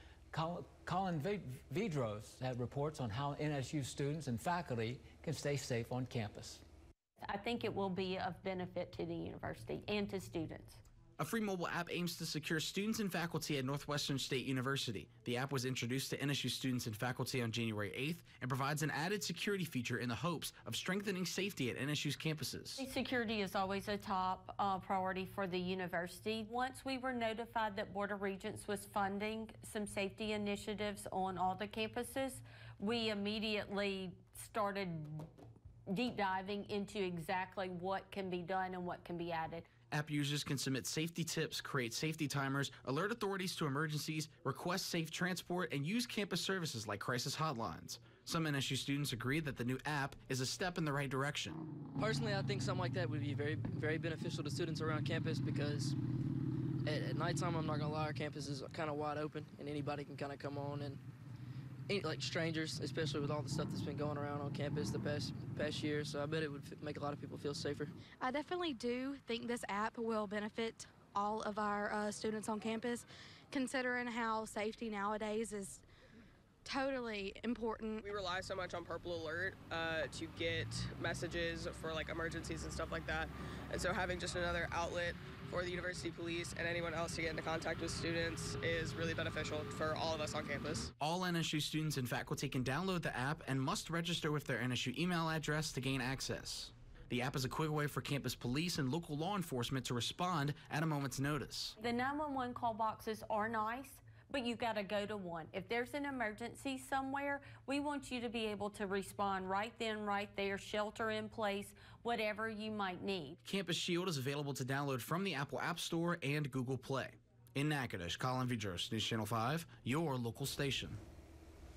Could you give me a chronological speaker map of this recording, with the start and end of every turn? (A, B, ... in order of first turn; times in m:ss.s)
0:00.3-0:06.6 A
0:07.2-0:10.8 B
0:11.2-0:22.8 C
0:22.8-0:35.3 B
0:35.9-0:39.7 B
0:39.9-0:51.6 C
0:52.0-0:55.9 D
0:56.8-1:01.0 D
1:01.9-1:07.9 D
1:08.2-1:15.8 E
1:16.6-1:18.0 E
1:18.0-1:30.9 F
1:31.0-1:41.8 C
1:41.8-1:53.4 B
1:53.4-2:01.0 C